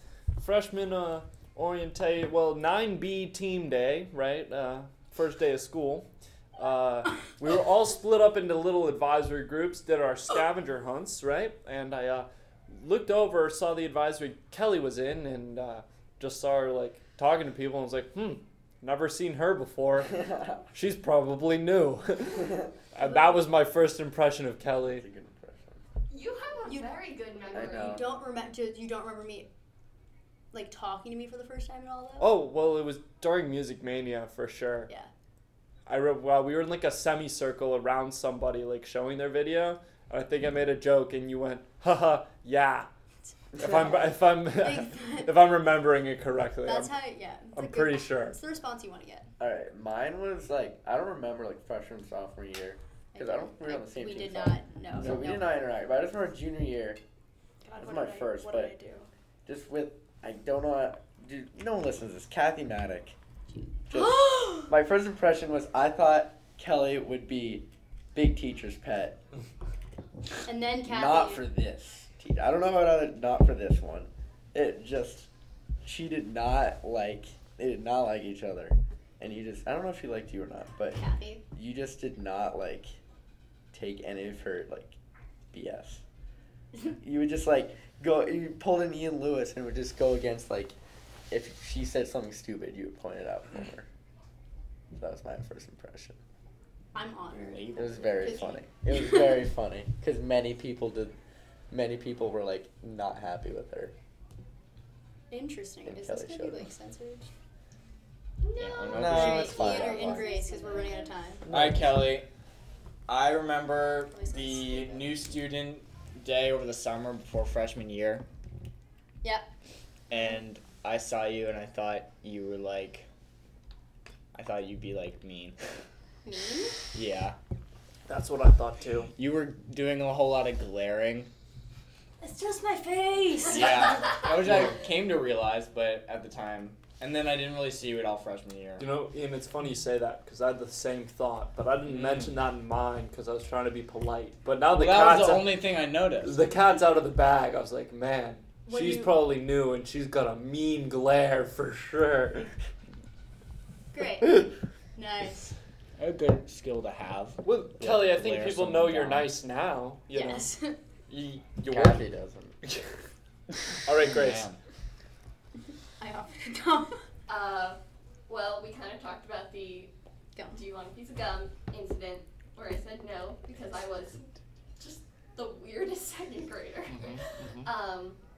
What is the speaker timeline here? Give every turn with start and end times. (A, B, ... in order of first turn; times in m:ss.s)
0:00.4-0:25.0 A
0:23.0-0:23.4 B
0:24.9-0:25.8 C
0:26.1-0:28.0 D
0:26.6-0:27.0 B
0:27.5-0:28.0 C
0:27.5-0:29.5 B
0:30.5-0:32.4 B
0:32.2-0:34.9 A
0:35.9-0:42.9 A
0:43.5-0:47.0 A
0:44.5-0:45.4 B
0:46.6-0:49.3 B
0:47.5-0:48.4 A
0:49.4-0:57.0 C
0:53.1-0:55.5 B
0:55.0-0:55.3 A
0:57.6-0:59.1 B
0:57.8-0:58.7 C
0:59.4-1:03.2 C
1:03.5-1:04.7 B
1:03.9-1:09.2 C
1:10.4-1:11.5 B
1:10.8-1:15.3 C
1:15.8-1:21.0 C
1:21.0-1:21.4 B
1:21.5-1:23.0 C
1:23.7-1:25.0 C
1:25.5-1:26.0 C
1:26.9-1:30.8 C
1:31.3-1:33.9 C
1:34.9-1:36.2 C
1:36.9-1:38.6 B
1:37.3-1:38.6 E
1:37.7-1:41.1 C
1:41.7-1:43.9 C
1:45.3-1:47.3 B
1:45.8-1:46.6 C
1:48.4-1:51.1 D
1:48.6-1:49.5 E
1:48.9-1:50.3 C
1:49.0-1:51.4 B
1:51.4-1:51.9 C
1:51.5-1:52.3 E
1:53.1-1:58.2 E
1:54.1-1:55.1 B
2:00.1-2:03.1 E
2:04.3-2:05.6 E
2:06.2-2:06.8 B
2:06.9-2:07.4 E
2:08.1-2:09.1 A
2:09.1-2:11.3 E
2:12.2-2:14.2 B
2:13.5-2:18.8 E
2:14.1-2:14.4 D
2:18.8-2:25.7 A
2:21.9-2:22.2 E
2:24.7-2:26.4 E
2:26.2-2:32.5 A
2:28.7-2:29.2 B
2:33.9-2:35.5 B
2:36.0-2:39.4 E
2:37.4-2:40.5 A
2:40.1-2:40.8 B
2:41.1-2:42.0 A
2:41.7-2:42.6 C
2:43.8-2:44.5 A
2:44.0-2:44.6 E
2:46.0-2:47.0 B
2:47.3-2:49.9 D
2:50.4-2:50.6 B
2:50.5-2:58.2 D
2:56.9-2:57.7 A